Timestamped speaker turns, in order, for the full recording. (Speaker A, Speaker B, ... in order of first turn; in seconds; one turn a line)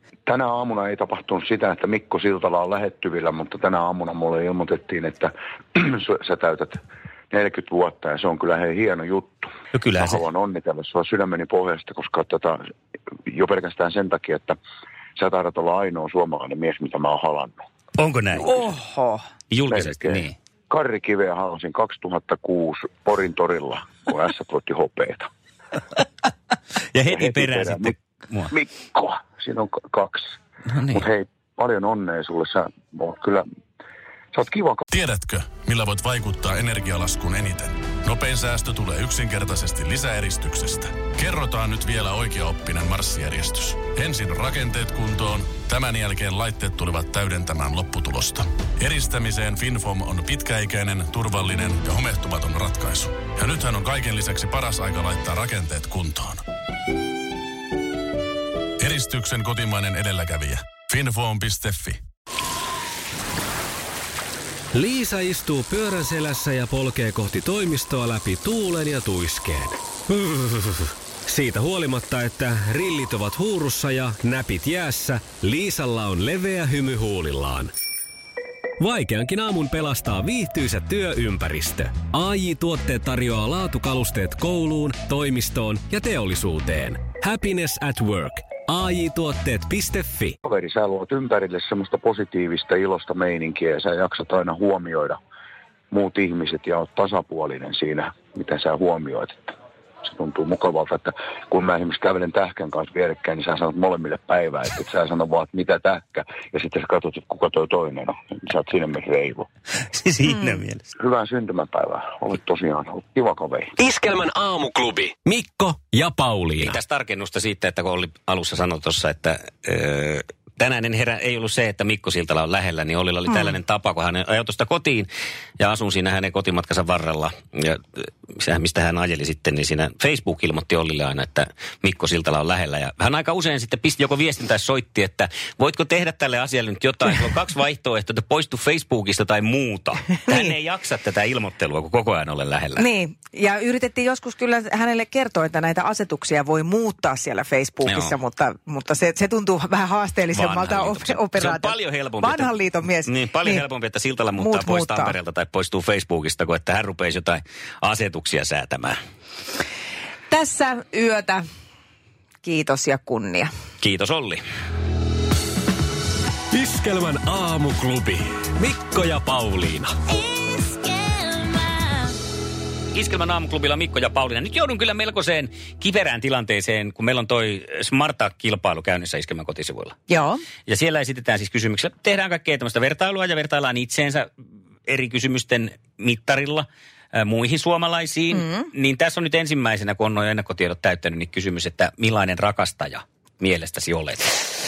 Speaker A: 0.2-6.8
Speaker A: 7.3-12.6
Speaker B: 9.7-10.2
Speaker A: 13.3-14.6
Speaker A: 15.2-17.6
Speaker B: 18.0-18.6
Speaker C: 18.4-19.2
Speaker B: 19.5-20.3
Speaker A: 19.7-25.3
Speaker B: 26.9-28.5
Speaker A: 27.1-27.9
Speaker A: 28.5-30.3
Speaker B: 30.7-31.0
Speaker A: 30.9-33.4
Speaker A: 34.3-34.8
Speaker D: 34.9-56.4
Speaker D: 58.8-62.0
Speaker E: 64.7-77.7
Speaker E: 78.8-90.3
Speaker A: 90.4-95.2
Speaker A: 95.9-99.5
Speaker A: 100.0-109.5
Speaker B: 109.9-110.8
Speaker A: 111.0-113.7
Speaker E: 113.8-116.8
Speaker B: 116.6-142.8
Speaker C: 142.8-153.6
Speaker B: 147.8-148.1
Speaker B: 150.3-152.5
Speaker B: 153.0-159.0
Speaker C: 154.3-155.1
Speaker C: 160.3-161.4
Speaker C: 162.4-163.5
Speaker B: 163.8-164.4
Speaker E: 166.5-169.9
Speaker B: 172.9-180.0
Speaker C: 180.1-180.4
Speaker B: 180.7-184.3
Speaker B: 184.9-194.5
Speaker C: 188.3-188.6